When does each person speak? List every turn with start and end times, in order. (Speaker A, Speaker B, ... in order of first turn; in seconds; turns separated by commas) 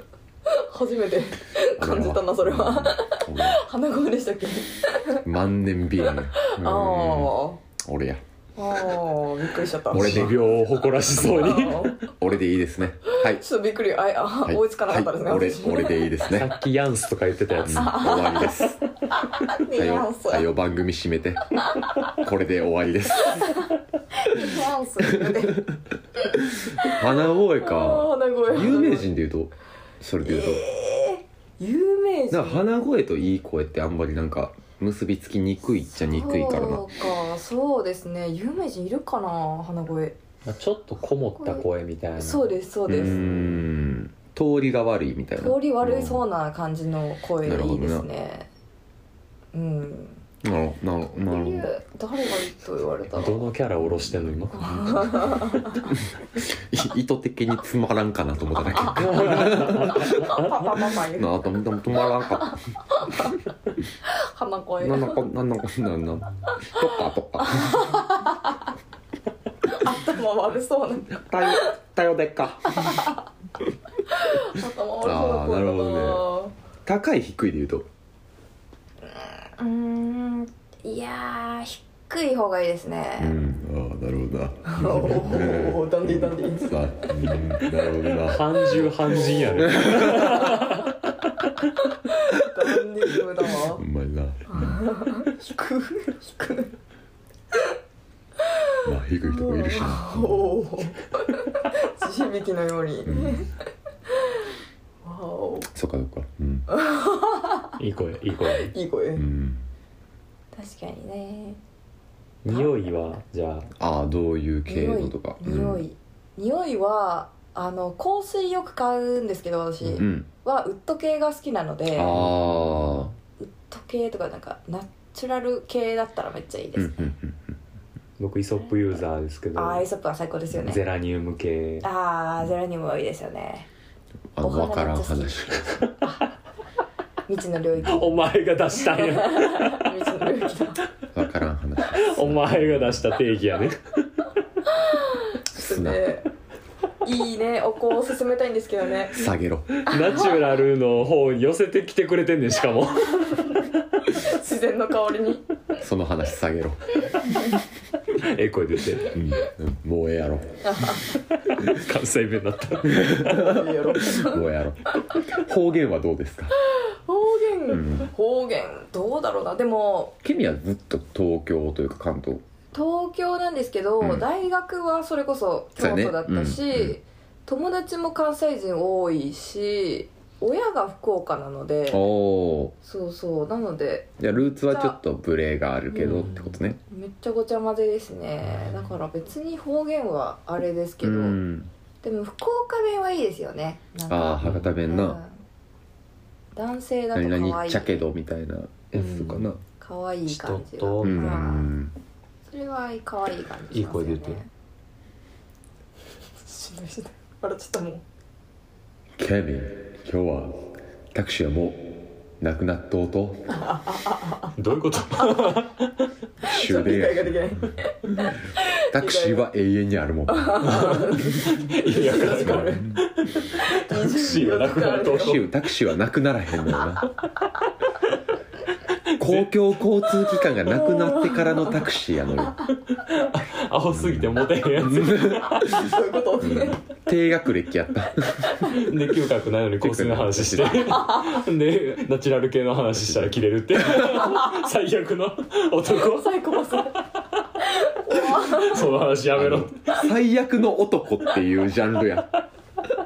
Speaker A: 0.5-5.2, Speaker B: 1.8-3.6, Speaker B: 5.2-8.2, Speaker A: 6.0-7.6, Speaker A: 8.6-10.3, Speaker B: 9.9-10.5, Speaker C: 9.9-12.0, Speaker B: 11.1-13.4, Speaker A: 11.3-12.1, Speaker A: 13.1-16.1, Speaker B: 14.4-16.5, Speaker C: 16.3-18.1, Speaker B: 17.6-18.8, Speaker A: 17.7-20.5, Speaker B: 19.7-23.6, Speaker A: 23.2-25.6, Speaker B: 25.1-25.6, Speaker A: 26.2-29.1, Speaker B: 26.5-30.6, Speaker A: 30.2-32.6, Speaker B: 32.3-36.8, Speaker A: 36.0-40.1, Speaker C: 40.5-43.6, Speaker A: 41.4-41.6, Speaker A: 42.2-43.2, Speaker B: 42.9-46.2, Speaker A: 45.4-48.5, Speaker B: 47.4-48.1, Speaker A: 49.5-50.2, Speaker B: 50.4-51.7, Speaker A: 51.2-53.5, Speaker C: 53.1-55.0, Speaker B: 53.8-60.3, Speaker A: 54.5-55.9, Speaker A: 58.7-61.4, Speaker C: 59.0-60.5, Speaker B: 61.1-62.6, Speaker A: 62.1-63.4, Speaker A: 64.0-65.2, Speaker B: 64.8-68.0, Speaker A: 66.8-68.6, Speaker A: 69.7-71.7, Speaker B: 71.1-73.1, Speaker A: 72.7-73.2, Speaker A: 74.0-76.5, Speaker B: 75.0-76.2, Speaker B: 76.8-77.9, Speaker A: 79.0-83.4, Speaker B: 83.2-88.9, Speaker A: 84.7-87.4, Speaker C: 88.2-91.5, Speaker B: 89.5-90.5, Speaker A: 90.1-90.3, Speaker A: 92.0-93.8, Speaker B: 93.7-94.8, Speaker A: 94.5-96.7, Speaker A: 98.4-103.5, Speaker B: 98.8-100.6, Speaker B: 103.0-103.5, Speaker A: 104.1-104.4, Speaker A: 105.0-105.7, Speaker B: 105.7-106.7, Speaker A: 106.7-107.8, Speaker C: 107.8-108.7, Speaker A: 108.5-109.2, Speaker B: 109.2-109.6, Speaker A: 110.5-111.6, Speaker C: 112.4-113.7, Speaker A: 112.5-113.0, Speaker B: 113.8-115.8, Speaker A: 114.7-122.2, Speaker B: 120.0-120.3, Speaker B: 121.9-123.1, Speaker C: 122.1-123.1, Speaker A: 123.4-127.0, Speaker B: 126.8-127.6, Speaker C: 128.2-129.8, Speaker A: 129.5-130.8, Speaker C: 130.5-131.8, Speaker A: 131.8-133.7, Speaker B: 134.3-135.7, Speaker A: 134.4-136.3, Speaker C: 135.7-136.1, Speaker A: 137.3-138.2, Speaker B: 137.8-138.0, Speaker C: 137.8-140.2, Speaker A: 138.7-140.8, Speaker B: 141.1-142.9, Speaker C: 141.8-143.8, Speaker A: 144.8-146.3, Speaker B: 145.5-146.1, Speaker A: 147.0-149.2, Speaker B: 149.1-149.8, Speaker C: 149.8-153.6, Speaker A: 149.9-150.4, Speaker A: 154.0-155.5, Speaker B: 155.8-156.9, Speaker C: 158.1-159.2, Speaker B: 159.1-160.5, Speaker A: 160.6-161.0, Speaker C: 161.1-163.3, Speaker B: 162.8-166.5, Speaker A: 163.2-164.4, Speaker A: 166.6-170.2, Speaker B: 167.7-168.1, Speaker B: 170.2-172.4, Speaker A: 172.7-182.0, Speaker B: 175.8-177.0, Speaker B: 181.9-182.7, Speaker A: 182.8-185.0, Speaker B: 184.2-186.8, Speaker A: 185.9-191.4, Speaker B: 191.0-191.7, Speaker A: 192.0-195.4, Speaker B: 194.1-195.2, Speaker C: 194.4-194.8, Speaker A: 196.5-198.1, Speaker B: 197.1-199.6, Speaker A: 198.9-201.7, Speaker C: 200.3-201.5, Speaker B: 201.0-201.9, Speaker A: 202.5-204.5, Speaker C: 203.7-204.4, Speaker A: 206.4-208.0, Speaker B: 209.2-210.6, Speaker B: 211.1-211.8, Speaker B: 212.4-213.6, Speaker A: 213.5-214.5, Speaker C: 214.5-216.1, Speaker A: 215.2-215.6, Speaker B: 216.4-217.7, Speaker A: 216.4-219.5, Speaker B: 218.9-220.9, Speaker A: 220.3-222.8, Speaker C: 220.6-225.5, Speaker B: 222.5-223.0, Speaker A: 223.5-225.4, Speaker B: 225.2-227.1, Speaker C: 229.1-229.7, Speaker B: 229.2-232.6, Speaker A: 230.6-231.8, Speaker C: 232.9-235.9, Speaker B: 233.9-238.8, Speaker A: 235.6-236.8, Speaker C: 238.5-246.3, Speaker B: 239.8-241.1, Speaker A: 240.8-241.4, Speaker A: 244.2-244.5, Speaker A: 245.9-247.1, Speaker A: 247.6-248.9, Speaker C: 248.1-250.1, Speaker B: 249.3-252.3